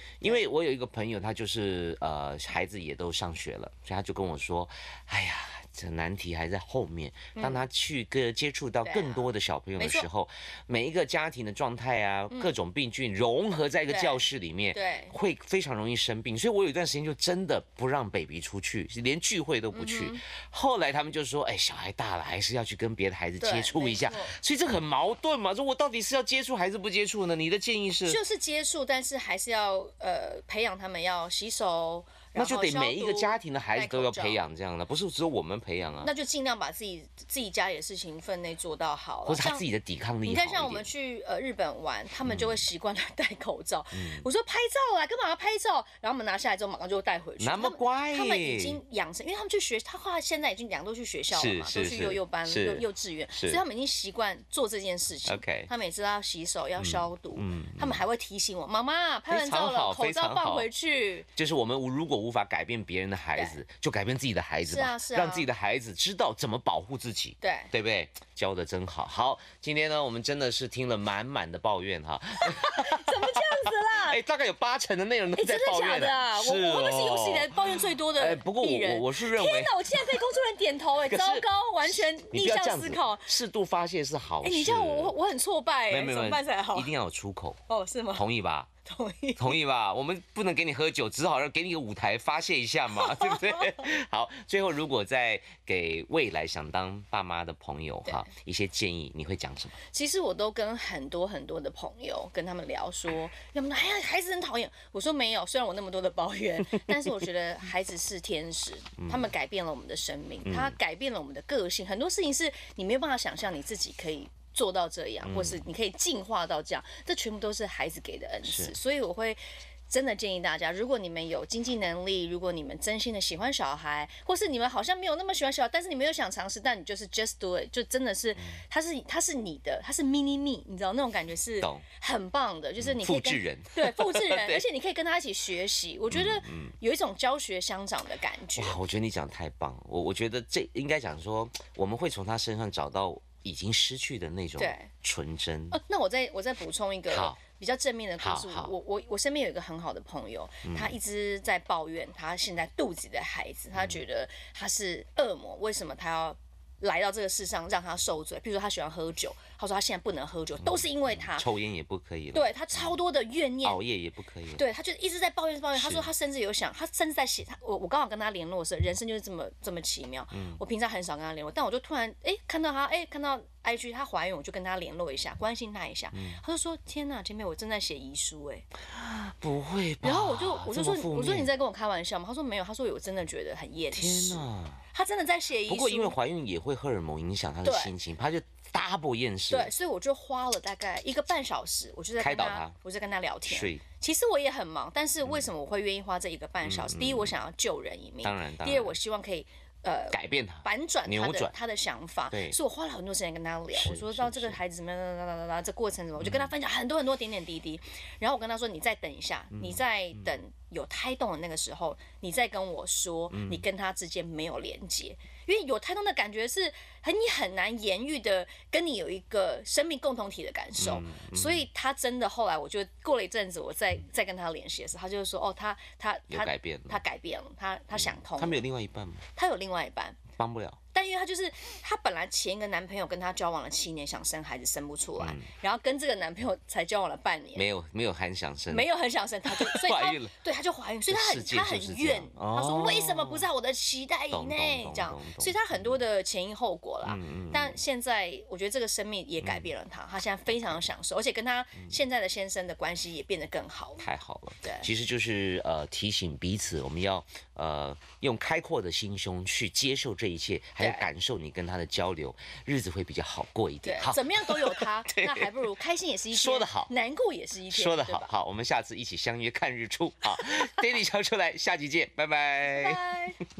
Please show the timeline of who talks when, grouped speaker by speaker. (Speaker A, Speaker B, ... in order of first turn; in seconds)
Speaker A: 0.2-28.2, 32.3-36.1, 39.2-40.9, 42.2-42.6, 43.9-44.2, 47.4-48.8, 51.3-53.6, 55.2-55.7, 56.8-58.0, 59.3-60.7, 61.4-80.2, 81.0-85.1, 85.9-87.6, 88.1-88.7, 89.4-99.8, 106.8-107.1, 109.0-109.3, 110.4-110.8, 115.2-115.7, 118.4-118.7, 132.8-134.6, 136.1-136.7, 138.6-145.8, 147.1-147.4, 148.2-148.7, 150.6-150.9, 160.6-163.0, 163.6-164.6, 165.7-166.1, 170.3-170.6, 176.1-176.4, 178.8-181.5, 183.9-184.8, 185.7-189.7, 192.2-192.8, 193.5-193.8, 196.6-197.4, 198.2-199.0, 200.1-201.5, 202.3-202.6, 203.7-204.6, 206.2-206.5, 209.5-210.3, 213.3-213.6, 220.8-221.7, 226.3-227.0, 227.9-229.2, 230.4-230.8, 235.2-235.5, 237.5-238.9, 239.5-240.3, 241.1-243.5, 244.3-246.0, 247.0-247.8, 249.4-249.7, 254.0-265.6, 266.3-266.9, 267.7-273.0
Speaker B: 7.3-7.7, 8.8-10.1, 13.9-15.1, 19.7-20.2, 23.4-24.3, 28.1-34.4, 36.0-39.6, 40.2-61.3, 64.6-65.5, 67.4-67.7, 72.4-74.2, 75.3-83.3, 84.4-86.9, 87.7-88.2, 88.8-89.6, 92.9-93.9, 99.9-138.8, 144.6-144.9, 145.7-161.5, 162.3-163.8, 164.6-178.7, 180.0-186.2, 187.6-187.9, 189.5-228.6, 229.3-230.2, 230.9-237.7, 238.7-254.1, 254.6-254.9, 260.8-261.1, 263.8-268.3, 272.6-273.4